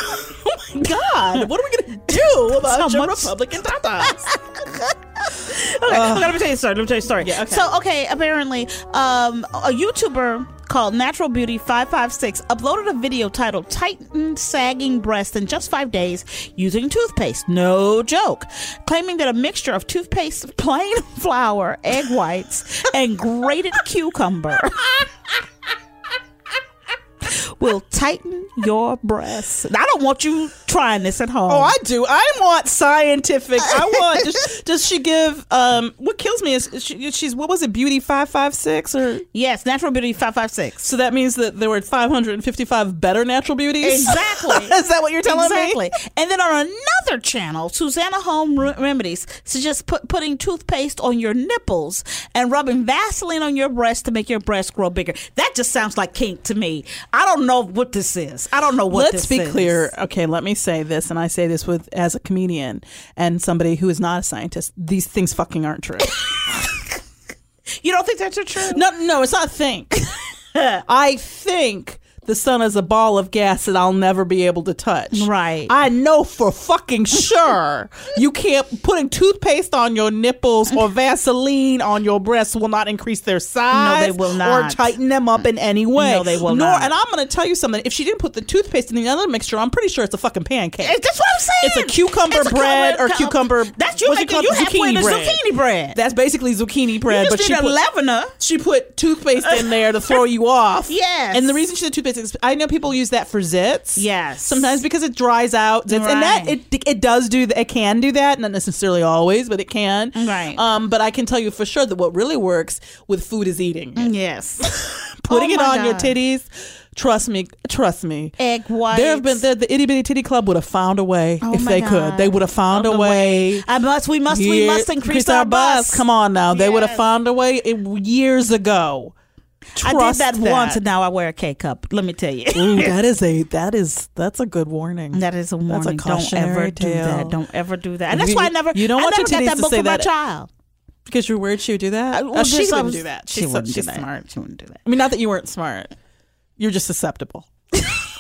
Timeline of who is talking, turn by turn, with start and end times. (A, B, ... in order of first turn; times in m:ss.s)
0:00.7-0:04.3 A
0:00.8-0:01.5 B
0:02.1-0:03.4 B
0:04.1-0:24.9 B
0:05.8-0:06.4 A
0:07.2-0:07.7 A
0:27.2-0:31.7 B
0:31.5-0:39.2 A
0:39.3-0:40.9 B
0:40.8-0:45.8 A
0:43.8-0:59.9 B
0:58.9-1:06.2 A
1:07.8-1:08.8 B
1:08.7-1:10.0 A
1:10.6-1:10.8 B
1:10.9-1:31.0 A
1:15.1-1:15.8 B
1:23.7-1:24.8 B
1:26.0-1:26.9 B
1:30.8-1:36.0 B
1:31.6-1:35.4 A
1:35.9-1:37.8 A
1:37.1-1:38.4 B
1:38.4-1:54.1 A
1:39.4-1:39.7 B
1:40.9-1:41.6 B
1:44.0-1:44.7 B
1:45.9-1:46.6 B
1:50.1-1:50.6 B
1:54.0-1:54.7 B
1:54.6-1:58.4 A
1:55.3-1:56.1 B
1:58.4-1:59.4 B
1:58.9-2:03.6 A
2:01.4-2:07.0 B
2:04.3-2:09.1 A
2:09.8-2:10.8 A
2:09.8-2:12.9 B
2:12.6-2:17.4 A
2:15.1-2:20.5 B
2:18.1-2:20.1 A
2:21.1-2:24.2 A
2:22.1-2:24.8 B
2:24.8-2:25.9 A
2:26.6-2:28.0 A